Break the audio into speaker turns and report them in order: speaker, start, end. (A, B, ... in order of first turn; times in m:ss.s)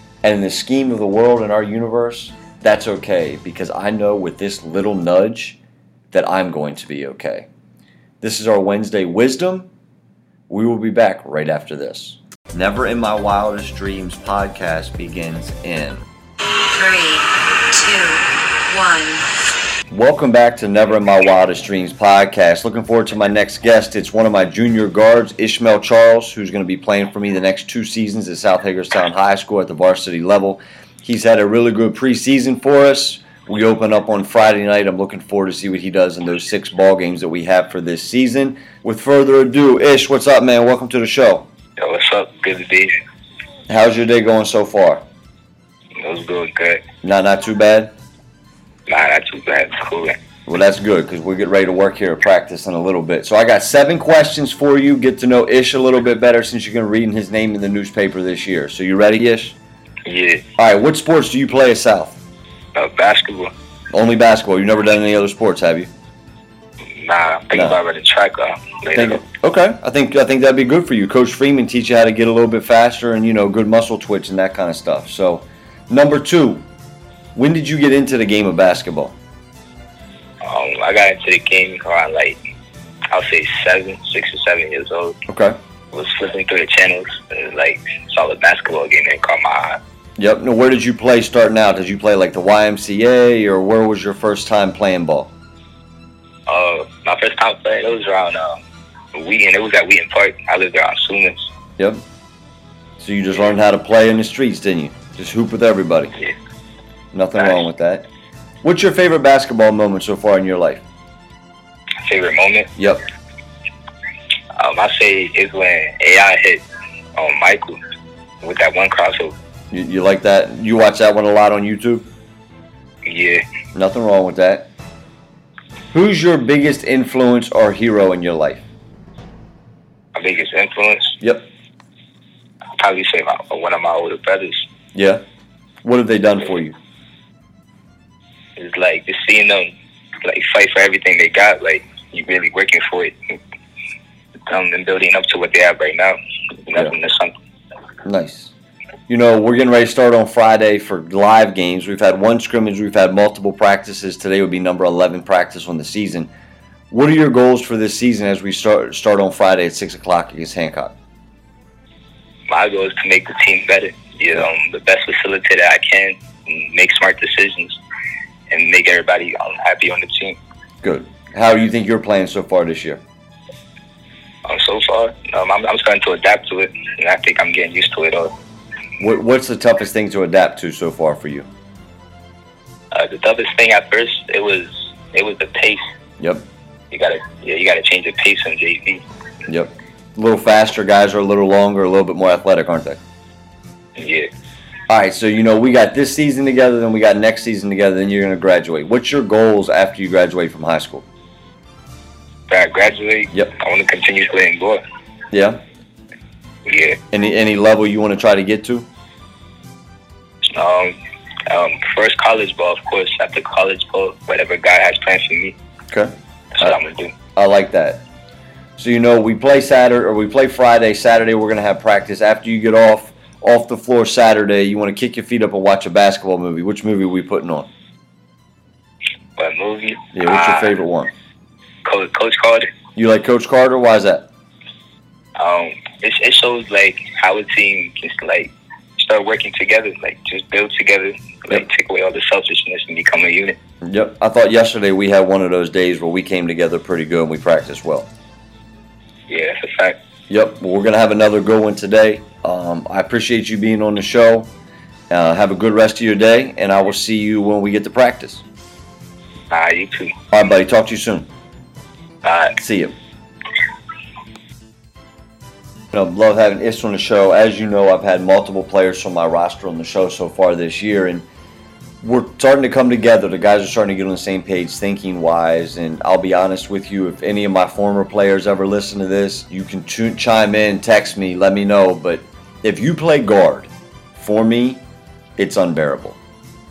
0:00.2-0:05.6 A
0:06.1-0:07.5 A
0:08.2-0:09.7 A
0:10.5-0:16.1 A
0:16.7-0:19.3 B
0:19.9-0:41.5 A
0:41.8-0:43.0 C
0:43.7-0:45.0 A
0:46.0-0:46.8 C
0:47.0-0:47.9 A
0:48.9-0:50.2 C
0:50.5-0:59.6 A
1:00.0-1:00.4 C
1:00.6-1:02.2 A
1:02.8-1:03.5 C
1:03.9-1:05.9 A
1:06.9-1:09.2 C
1:07.5-1:07.8 A
1:09.0-1:16.6 A
1:17.4-1:19.2 A
1:20.4-1:22.4 C
1:23.1-1:25.2 C
1:25.3-1:25.6 A
1:25.9-1:29.8 C
1:30.2-1:35.3 A
1:36.5-1:38.6 C
1:39.2-1:41.5 C
1:43.0-1:46.2 A
1:47.1-1:48.1 A
1:47.4-1:47.6 C
1:48.6-1:50.8 A
1:52.0-1:52.7 C
1:52.8-1:53.0 A
1:54.6-1:56.6 C
1:57.2-1:57.8 C
1:58.4-1:59.4 C
1:59.7-2:02.1 A
2:03.0-2:03.4 C
2:03.8-2:04.7 A
2:05.9-2:08.7 A
2:10.2-2:11.2 C
2:11.2-2:11.5 A
2:12.8-2:14.7 C
2:15.0-2:15.2 A
2:15.8-2:16.8 A
2:18.6-2:19.7 C
2:20.2-2:23.4 C
2:24.5-2:27.3 C
2:28.0-2:28.5 A
2:29.1-2:36.3 A
2:36.9-2:40.9 A
2:42.5-2:47.8 C
2:48.5-2:50.4 C
2:50.8-2:53.0 A
2:54.4-2:58.3 C
2:59.0-3:01.5 A
3:02.9-3:05.8 C
3:06.2-3:06.5 A
3:06.9-3:09.0 C
3:09.5-3:13.0 A
3:14.0-3:14.3 C
3:14.9-3:21.0 A
3:22.5-3:24.8 C
3:25.3-3:25.6 A
3:26.6-3:27.0 C
3:27.1-3:28.9 A
3:30.5-3:31.0 C
3:31.5-3:35.6 C
3:35.9-3:36.8 A
3:36.6-3:37.1 C
3:37.4-3:38.0 A
3:38.8-3:47.7 A
3:49.4-3:50.8 C
3:50.1-3:51.1 A
3:51.8-3:52.7 C
3:53.0-3:54.3 A
3:55.4-4:03.6 C
4:03.8-4:08.1 A
4:09.3-4:10.0 C
4:10.3-4:14.5 A
4:15.1-4:18.4 A
4:19.5-4:20.2 C
4:20.3-4:21.3 A
4:22.2-4:22.6 C
4:22.6-4:23.0 A
4:25.9-4:31.2 A
4:32.0-4:44.8 A
4:45.4-4:46.2 A